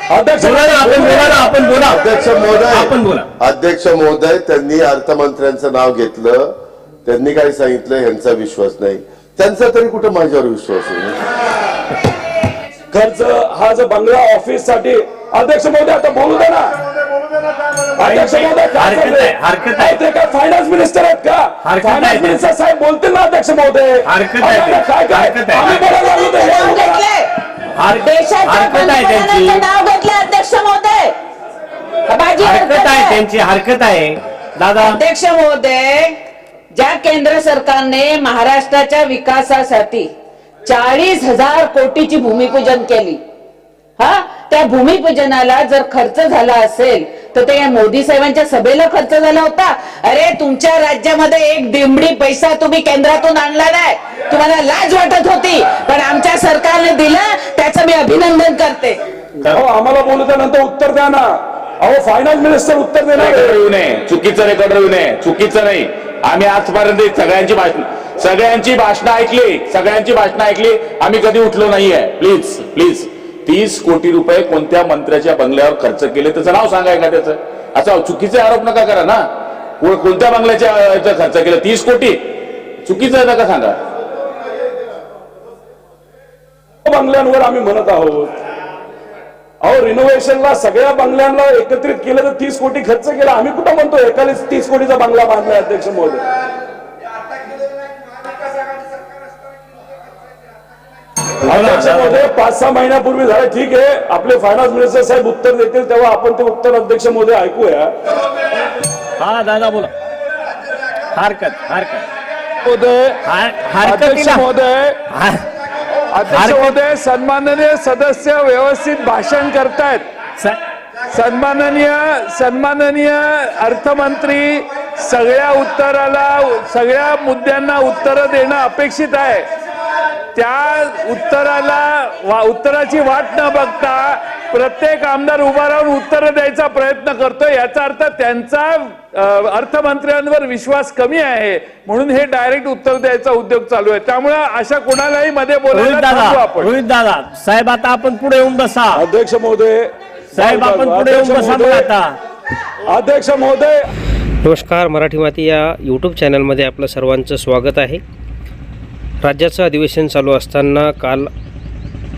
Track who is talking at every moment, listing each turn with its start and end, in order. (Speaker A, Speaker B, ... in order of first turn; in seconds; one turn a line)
Speaker A: 0.1-1.5
Speaker B: 0.4-2.0
Speaker C: 1.8-6.5
Speaker B: 2.7-3.3
Speaker C: 7.0-11.2
Speaker A: 12.9-16.7
Speaker A: 18.0-27.0
Speaker B: 18.0-19.9
Speaker B: 21.6-22.4
Speaker B: 24.0-26.0
Speaker D: 26.3-27.3
Speaker B: 27.7-29.6
Speaker D: 28.0-31.1
Speaker D: 32.1-33.2
Speaker B: 32.4-35.0
Speaker D: 34.8-36.2
Speaker D: 36.7-40.1
Speaker D: 40.6-43.2
Speaker D: 44.0-59.0
Speaker A: 59.5-63.6
Speaker E: 63.1-79.2
Speaker E: 79.8-82.2
Speaker E: 82.8-83.8
Speaker A: 86.8-88.3
Speaker A: 89.6-96.2
Speaker B: 101.4-102.2
Speaker A: 101.5-107.9
Speaker B: 109.2-109.9
Speaker B: 111.1-112.0
Speaker F: 112.6-113.1
Speaker B: 113.2-114.5
Speaker F: 113.8-114.9
Speaker B: 115.1-115.4
Speaker F: 116.1-120.0
Speaker B: 116.2-116.8
Speaker F: 121.1-129.5
Speaker F: 130.3-146.7
Speaker B: 145.7-149.0
Speaker A: 148.9-151.9
Speaker B: 150.3-152.2
Speaker A: 152.9-153.8
Speaker G: 154.4-158.0
Speaker G: 159.2-161.3